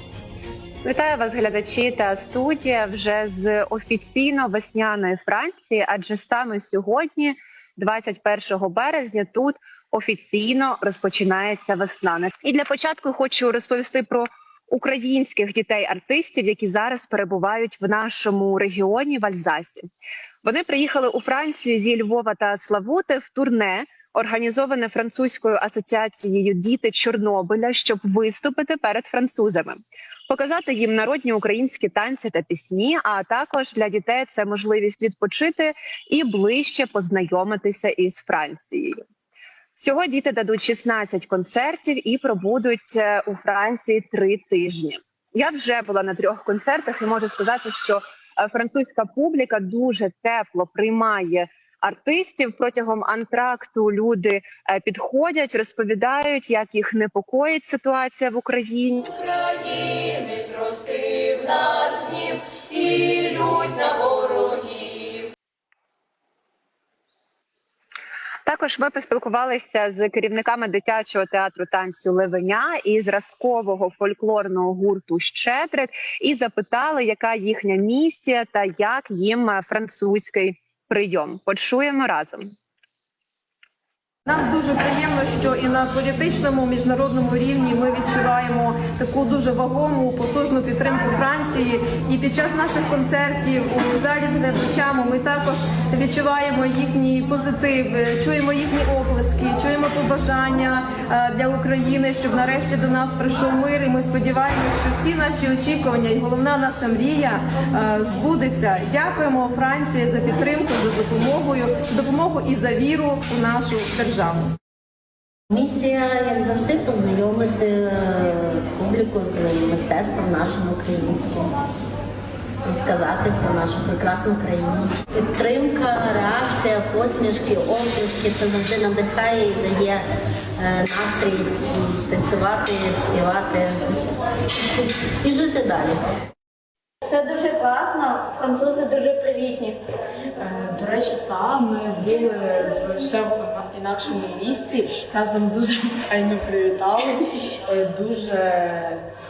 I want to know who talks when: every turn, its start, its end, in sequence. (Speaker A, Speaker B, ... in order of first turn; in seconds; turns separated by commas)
Speaker A: 0.8-19.8, Speaker A: 20.4-29.8, Speaker A: 30.3-39.0, Speaker A: 39.8-59.2, Speaker B: 59.4-65.0, Speaker A: 68.5-82.5, Speaker C: 84.3-114.5, Speaker D: 115.5-121.5, Speaker D: 122.7-130.0, Speaker D: 130.6-134.1, Speaker D: 134.7-136.0, Speaker E: 137.0-139.8, Speaker F: 140.4-149.1